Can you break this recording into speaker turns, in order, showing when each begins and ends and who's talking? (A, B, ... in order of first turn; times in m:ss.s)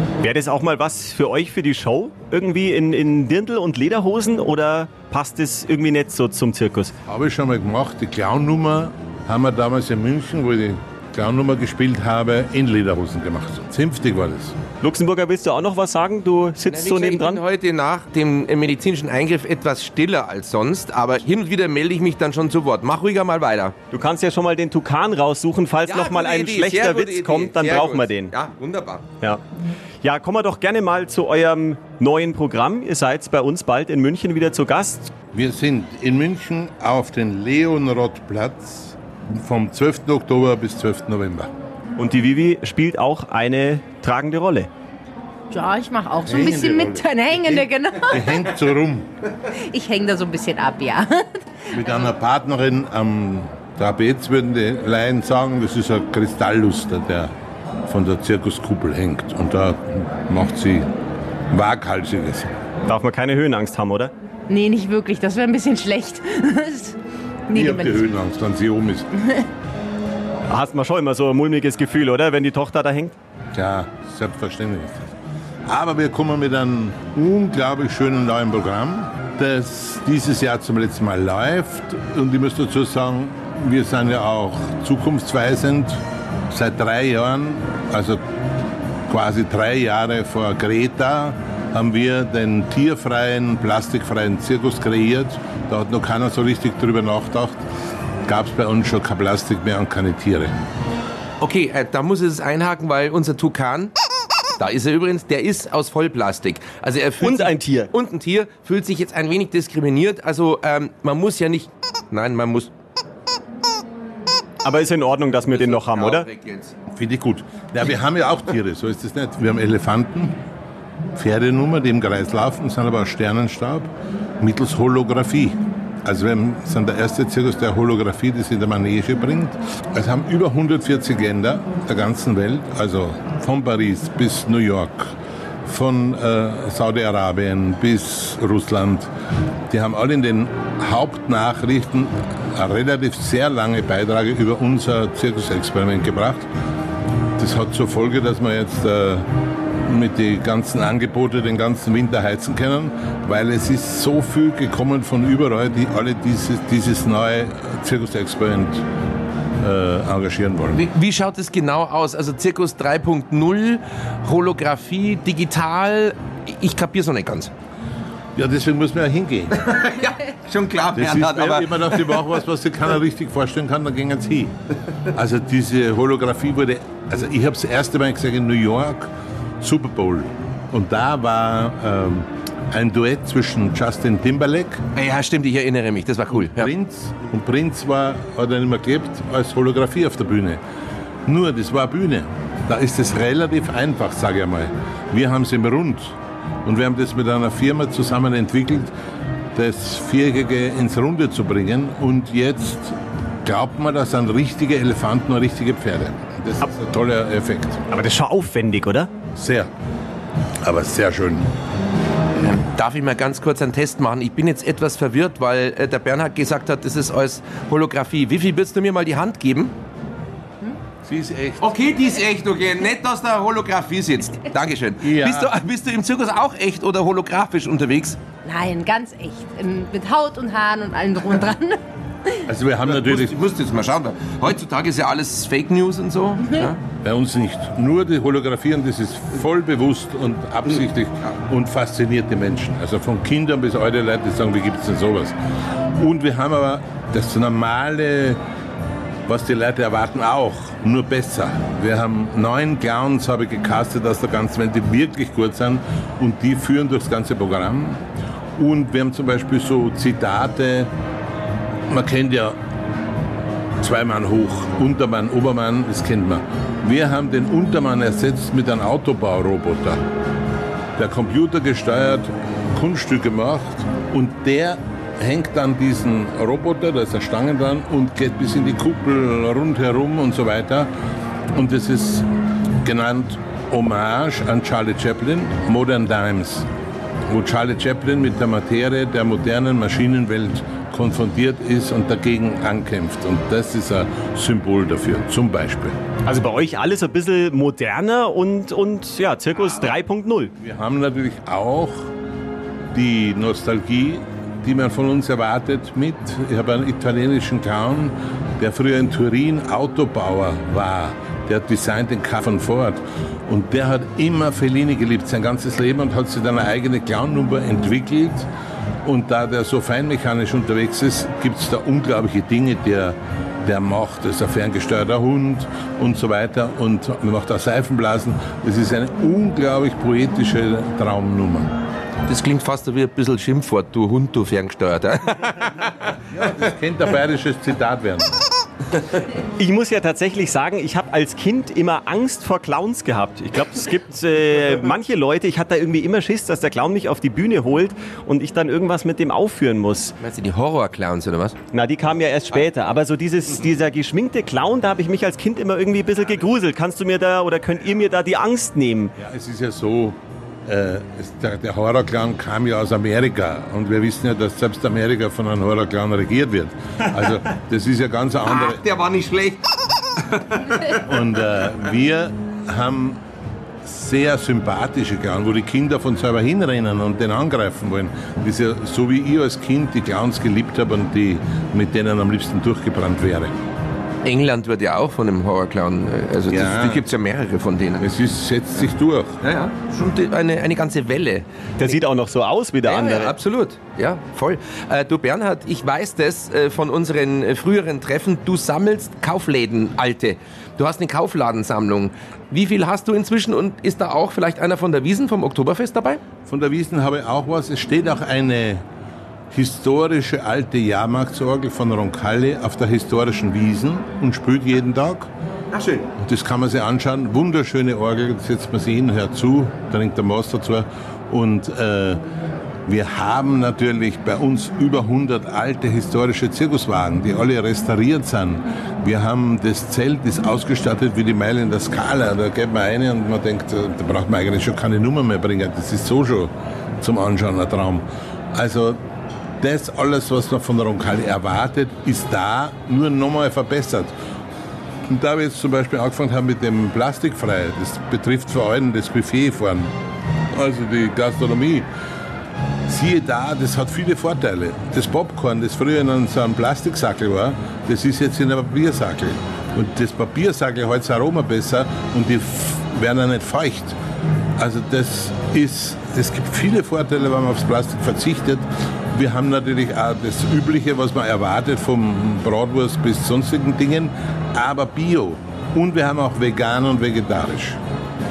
0:00.2-0:06.9 A
0:07.1-0:14.6 B
0:14.8-0:17.4 A
0:16.7-0:23.7 C
0:23.9-0:28.3 A
0:25.8-0:29.0 C
0:30.0-0:35.1 A
0:35.3-0:41.5 B
0:42.0-0:44.7 A
0:45.5-0:48.5 D
0:46.2-0:49.1 B
0:49.5-0:52.0 D
0:51.7-0:57.3 B
0:57.9-1:00.9 B
1:01.5-1:02.5 B
1:02.8-1:04.1 A
1:04.5-1:08.0 D
1:07.5-1:09.1 B
1:10.5-1:13.2 A
1:13.5-1:15.1 B
1:15.7-1:28.2 B
1:29.1-1:37.6 B
1:38.2-1:40.5 B
1:41.4-1:43.9 C
1:44.6-1:52.7 C
1:47.2-1:47.9 A
1:54.6-1:56.3 A
1:55.5-1:56.8 C
1:56.9-2:00.4 B
2:01.1-2:15.1 B
2:15.6-2:19.1 B
2:19.7-2:26.5 B
2:27.4-2:29.3 B
2:29.8-2:38.8 B
2:39.6-2:40.8 B
2:40.7-2:47.5 C
2:48.4-2:49.5 B
2:49.5-2:52.4 C
2:50.9-2:54.5 B
2:55.1-2:59.1 B
2:59.6-3:04.8 B
3:04.9-3:06.7 C
3:06.3-3:10.6 B
3:11.2-3:18.9 B
3:19.5-3:27.8 B
3:27.9-3:29.1 A
3:29.3-3:29.7 B
3:30.6-3:31.5 B
3:32.4-3:39.7 C
3:41.0-3:41.7 B
3:41.6-3:48.2 C
3:45.0-3:45.5 B
3:48.4-3:52.4 D
3:52.4-3:53.4 B
3:52.8-3:56.8 C
3:57.0-4:05.4 B
4:06.0-4:08.4 B
4:09.3-4:18.0 B
4:18.6-4:20.9 B
4:21.9-4:22.6 B
4:23.8-4:30.0 B
4:31.0-4:40.9 B
4:41.5-4:42.3 B
4:42.8-4:46.7 B
4:47.3-4:56.0 B
4:56.2-5:00.5 A
5:00.6-5:02.1 B
5:02.9-5:18.5 B
5:19.0-5:31.7 B
5:32.3-5:36.1 C
5:36.3-5:38.3 B
5:39.6-5:50.1 A
5:50.2-5:51.6 C
5:51.7-5:59.1 A
5:59.2-6:08.8 B
6:08.5-6:09.6 C
6:10.2-6:11.0 C
6:11.0-6:13.2 B
6:13.8-6:23.5 B
6:24.2-6:28.1 C
6:26.5-6:27.0 B
6:28.0-6:29.4 B
6:29.4-6:32.0 C
6:31.8-6:33.3 A
6:32.8-6:46.2 C
6:46.4-6:48.8 B
6:49.5-6:55.3 B
6:55.7-6:56.1 C
6:56.2-7:02.2 B
7:02.8-7:19.0 B
7:19.6-7:24.1 B
7:25.1-7:29.9 B
7:30.5-7:31.9 B
7:32.9-7:44.0 B
7:44.6-7:57.8 B